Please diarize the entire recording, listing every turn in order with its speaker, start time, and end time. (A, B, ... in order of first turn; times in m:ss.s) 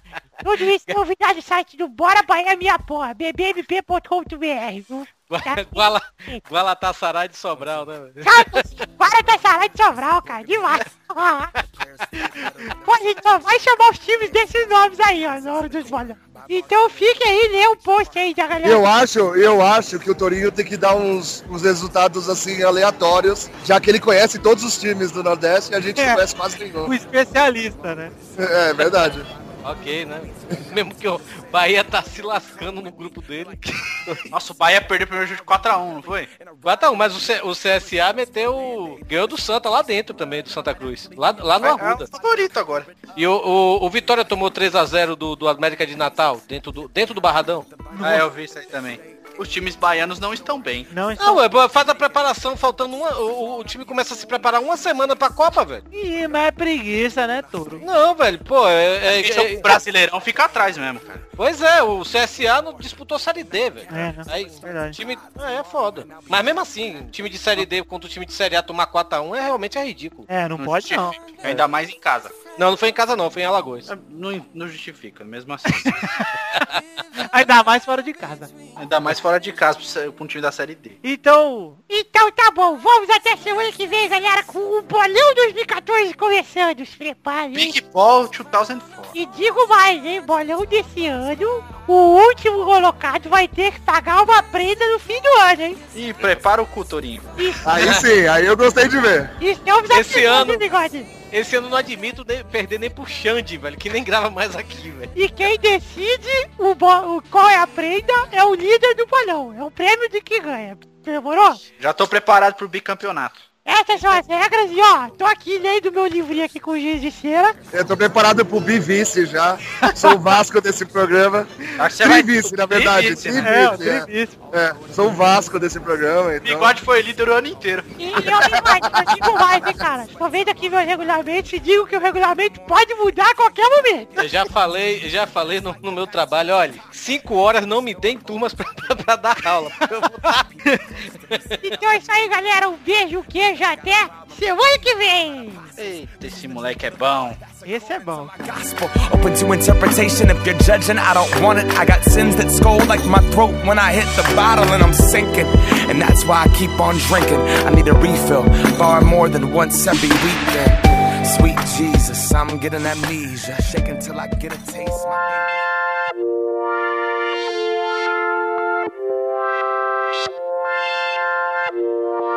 0:00.4-0:06.4 A
0:00.5-0:01.0 B
0:05.3-0:08.6 B
0:08.2-0:11.5 A
0:12.7-0:18.8 A
0:18.6-0:26.9 C
0:26.8-0:28.1 D
0:28.4-0:29.3 C
0:29.6-0:34.2 B
0:34.3-0:36.3 E
0:36.6-0:42.1 B
0:41.6-0:42.9 E
0:43.1-0:47.7 B
0:47.9-0:48.2 D
0:48.0-0:50.9 E
0:50.9-0:51.4 D
0:51.2-0:55.8 B
0:55.9-0:57.8 D
0:57.8-0:59.8 B
0:59.0-1:01.2 E
1:01.4-1:10.3 B
1:03.9-1:05.0 D
1:10.3-1:11.2 D
1:10.6-1:12.3 E
1:12.5-1:13.9 B
1:13.9-1:16.0 E
1:15.8-1:16.2 D
1:17.2-1:18.5 D
1:18.8-1:21.0 E
1:21.0-1:21.8 D
1:21.9-1:27.8 A
1:27.5-1:29.1 E
1:29.1-1:35.8 A
1:35.9-1:37.5 E
1:37.4-1:37.7 A
1:37.6-1:39.3 C
1:39.4-1:41.2 A
1:39.9-1:40.7 B
1:41.2-1:45.1 B
1:45.1-1:51.6 A
1:51.8-1:53.4 E
1:53.6-1:57.6 A
1:57.7-2:06.8 C
2:01.8-2:03.5 E
2:03.4-2:04.3 D
2:06.4-2:08.8 E
2:08.0-2:14.2 A
2:08.2-2:09.2 C
2:14.2-2:20.6 B
2:21.3-2:21.5 B
2:21.6-2:25.7 A
2:25.8-2:27.4 E
2:27.6-2:28.3 D
2:28.4-2:45.6 F